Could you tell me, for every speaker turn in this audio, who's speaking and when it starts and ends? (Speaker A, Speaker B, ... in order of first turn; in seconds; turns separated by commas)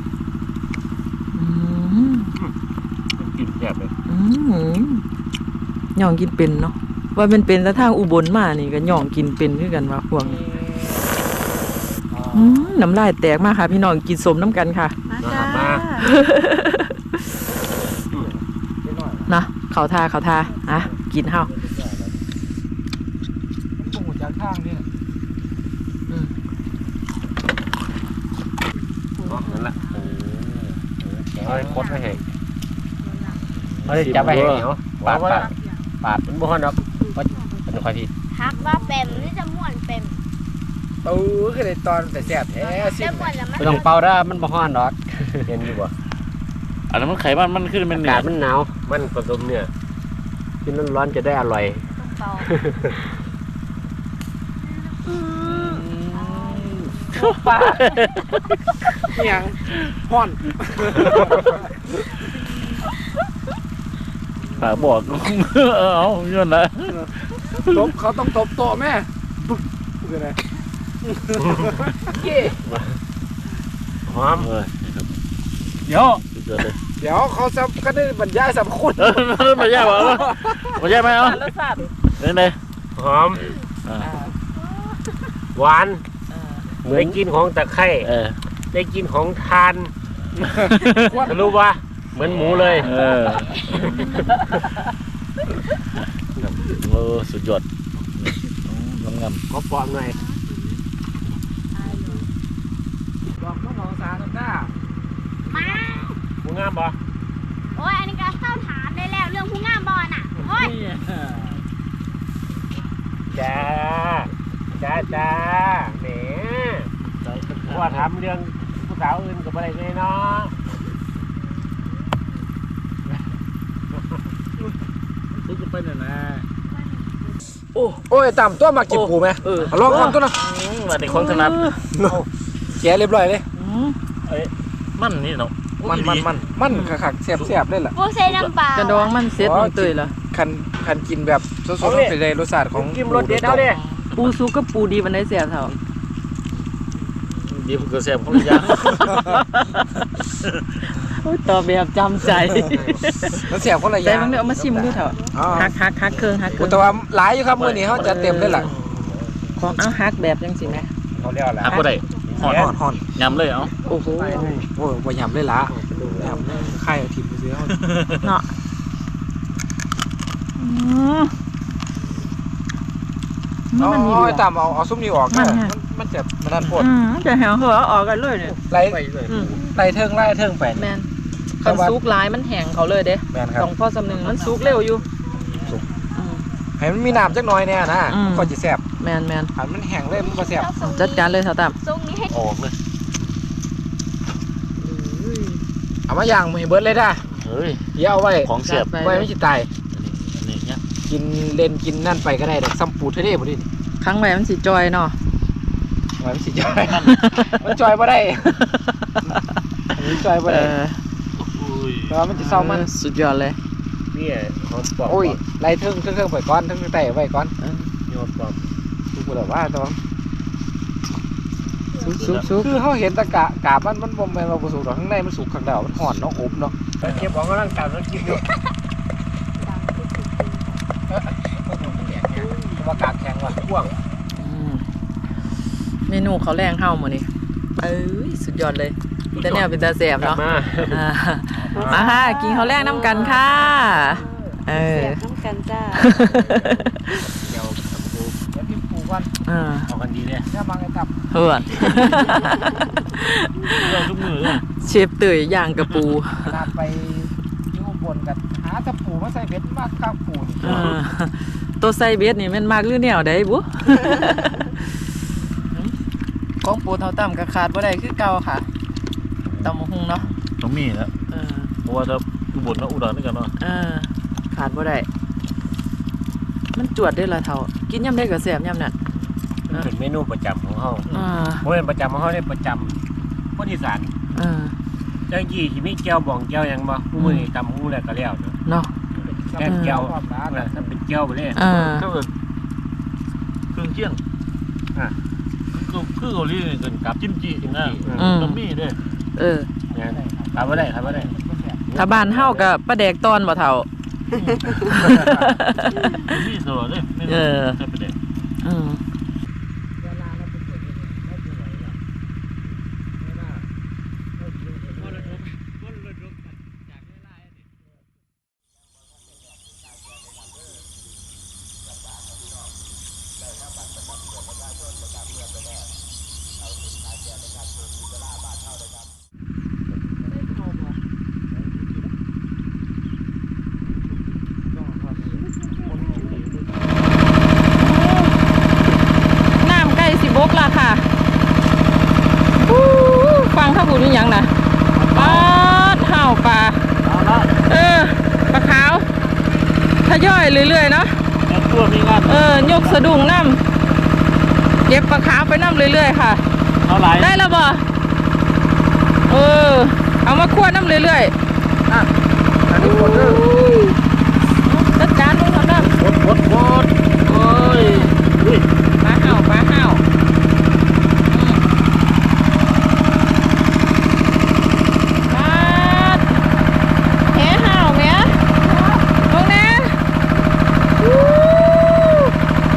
Speaker A: 1.3-2.3, Speaker B: 3.2-3.9, Speaker A: 4.1-5.0, Speaker A: 6.0-10.4, Speaker C: 10.2-10.9, Speaker C: 12.1-12.7, Speaker A: 12.3-14.9, Speaker D: 15.1-16.0, Speaker B: 15.2-15.9, Speaker A: 16.0-17.0, Speaker C: 18.8-19.3, Speaker A: 19.3-21.5, Speaker C: 23.8-24.9, Speaker B: 29.2-32.2, Speaker D: 29.3-30.1, Speaker E: 31.4-32.1, Speaker D: 33.1-33.4, Speaker F: 33.7-34.6, Speaker B: 33.9-38.1, Speaker E: 35.0-35.4, Speaker E: 38.3-40.2, Speaker D: 38.5-39.0, Speaker C: 41.0-43.4, Speaker E: 42.5-44.0, Speaker B: 43.6-45.9, Speaker F: 46.9-48.3, Speaker B: 47.9-49.7, Speaker B: 50.6-53.0, Speaker E: 51.9-52.5, Speaker C: 55.4-56.9, Speaker E: 56.1-56.8, Speaker F: 57.1-59.1, Speaker C: 59.1-61.6, Speaker F: 64.6-67.8, Speaker C: 67.7-69.1, Speaker C: 70.0-70.4, Speaker C: 71.1-72.0, Speaker B: 71.5-73.0, Speaker B: 74.1-74.5, Speaker F: 74.3-75.1, Speaker F: 76.3-76.8, Speaker C: 77.0-80.3, Speaker F: 79.0-81.5, Speaker A: 80.9-81.9, Speaker F: 82.1-82.6, Speaker B: 83.0-83.5, Speaker A: 84.0-84.3, Speaker B: 85.5-86.0, Speaker A: 86.3-86.7, Speaker B: 86.8-88.1, Speaker F: 86.9-87.2, Speaker F: 88.0-88.4, Speaker B: 88.7-89.9, Speaker F: 90.4-91.2, Speaker C: 91.0-91.5, Speaker B: 91.2-92.9, Speaker F: 92.2-94.2, Speaker F: 96.4-99.4, Speaker B: 99.5-100.2, Speaker E: 101.8-102.2, Speaker C: 103.4-104.7, Speaker E: 105.5-106.2, Speaker B: 106.4-107.0, Speaker E: 107.7-110.8, Speaker F: 110.5-111.5, Speaker B: 113.3-116.9, Speaker F: 117.2-118.1, Speaker B: 117.6-120.5, Speaker F: 125.3-126.5, Speaker C: 128.1-130.4, Speaker F: 128.9-131.7, Speaker A: 129.4-130.2, Speaker A: 131.1-131.8, Speaker C: 132.8-133.4, Speaker A: 133.6-133.9, Speaker F: 134.3-136.3, Speaker C: 135.8-137.9, Speaker A: 136.7-136.9, Speaker E: 137.9-139.1, Speaker A: 138.7-140.1, Speaker C: 139.3-143.7, Speaker B: 141.8-142.2, Speaker B: 142.7-143.8, Speaker A: 144.1-145.7, Speaker F: 147.4-149.4, Speaker A: 148.3-149.8, Speaker A: 151.0-156.9, Speaker B: 152.6-153.1, Speaker C: 153.3-154.4, Speaker B: 154.1-155.0, Speaker C: 155.3-155.7, Speaker C: 156.5-158.7, Speaker B: 157.5-159.5, Speaker A: 157.9-158.7, Speaker A: 159.6-160.9, Speaker B: 160.7-162.8, Speaker F: 161.6-163.7, Speaker C: 162.4-163.1, Speaker A: 163.9-164.5, Speaker C: 164.0-167.8, Speaker B: 164.3-164.7, Speaker B: 165.6-166.5, Speaker A: 166.2-166.8, Speaker F: 167.8-168.2, Speaker A: 168.2-168.5, Speaker A: 170.6-171.3, Speaker A: 173.7-174.4, Speaker C: 173.8-176.9, Speaker A: 175.3-175.7, Speaker A: 176.7-178.6, Speaker B: 178.5-179.6, Speaker C: 178.7-180.9, Speaker A: 179.3-179.6, Speaker A: 180.7-181.1, Speaker A: 181.6-185.0, Speaker C: 181.6-181.9, Speaker C: 183.3-183.7, Speaker F: 184.1-184.8, Speaker A: 186.1-186.4, Speaker C: 186.8-188.8, Speaker A: 188.1-189.5, Speaker C: 189.6-190.7, Speaker E: 190.1-192.4, Speaker A: 190.8-191.8, Speaker F: 192.3-192.8, Speaker A: 194.8-195.6, Speaker C: 196.1-197.2, Speaker F: 197.4-197.8, Speaker C: 197.9-199.7, Speaker F: 198.4-198.9, Speaker A: 198.6-199.3, Speaker F: 199.9-200.8, Speaker C: 201.1-203.7, Speaker A: 204.0-205.1, Speaker C: 206.2-207.1, Speaker F: 206.8-207.4, Speaker A: 207.0-207.6, Speaker C: 207.6-208.6, Speaker A: 208.6-209.3, Speaker C: 209.9-210.7, Speaker A: 210.4-211.0, Speaker F: 211.4-212.2, Speaker C: 212.1-212.9, Speaker A: 212.3-213.6, Speaker B: 214.1-215.4, Speaker C: 215.1-217.5, Speaker A: 217.6-217.9, Speaker B: 218.1-218.7, Speaker C: 219.1-220.0, Speaker A: 222.0-222.7, Speaker F: 222.1-222.5, Speaker C: 222.5-226.9, Speaker B: 227.0-228.4, Speaker D: 229.9-230.5, Speaker C: 231.1-233.7, Speaker B: 233.4-233.9, Speaker A: 234.4-234.8, Speaker A: 236.1-237.3, Speaker A: 237.8-245.2, Speaker B: 240.2-241.0, Speaker B: 241.7-242.1, Speaker D: 241.9-244.2, Speaker B: 242.7-243.2, Speaker D: 244.7-246.1, Speaker A: 245.9-247.2, Speaker C: 246.3-246.8, Speaker B: 247.3-248.4, Speaker C: 248.5-249.3, Speaker A: 249.4-249.9, Speaker B: 249.9-250.5, Speaker C: 250.4-251.1, Speaker A: 251.3-256.5, Speaker F: 253.8-254.6, Speaker C: 256.4-260.9, Speaker A: 260.6-264.7, Speaker A: 266.6-268.7, Speaker F: 269.5-271.1, Speaker A: 269.6-270.3, Speaker A: 271.3-271.7, Speaker F: 271.8-273.5, Speaker A: 273.6-275.1, Speaker A: 276.7-278.9, Speaker B: 279.7-283.0, Speaker A: 281.1-281.6, Speaker B: 283.5-284.1, Speaker A: 284.3-284.7, Speaker B: 285.3-288.6, Speaker A: 287.1-287.5, Speaker A: 288.6-288.9, Speaker B: 289.1-291.6, Speaker C: 289.2-290.9, Speaker A: 289.6-290.0, Speaker A: 291.6-292.1, Speaker F: 291.6-292.3, Speaker F: 293.7-294.2, Speaker F: 295.7-299.0, Speaker B: 297.6-298.3, Speaker A: 298.1-298.6, Speaker A: 299.4-299.7, Speaker C: 299.9-301.8, Speaker B: 299.9-301.3, Speaker B: 301.9-302.7, Speaker A: 301.9-303.9, Speaker A: 304.8-306.3, Speaker F: 304.9-305.3, Speaker F: 306.0-308.1, Speaker A: 307.3-307.8, Speaker A: 308.6-309.0, Speaker C: 310.0-311.8, Speaker A: 337.8-338.3, Speaker A: 339.6-341.0, Speaker A: 342.6-344.5, Speaker F: 344.9-345.5, Speaker A: 345.1-346.8, Speaker F: 347.0-347.6, Speaker A: 347.7-349.1, Speaker A: 350.0-351.2, Speaker F: 351.4-353.0, Speaker A: 352.2-353.6, Speaker A: 354.9-356.4, Speaker F: 356.8-357.3, Speaker A: 357.2-357.8, Speaker A: 359.3-361.3, Speaker C: 362.7-363.4, Speaker A: 362.7-364.0, Speaker A: 364.6-365.9, Speaker F: 365.8-368.6, Speaker A: 367.3-368.1, Speaker A: 369.0-370.0, Speaker A: 371.3-371.6, Speaker A: 375.3-376.3, Speaker A: 377.3-380.0, Speaker A: 381.0-382.3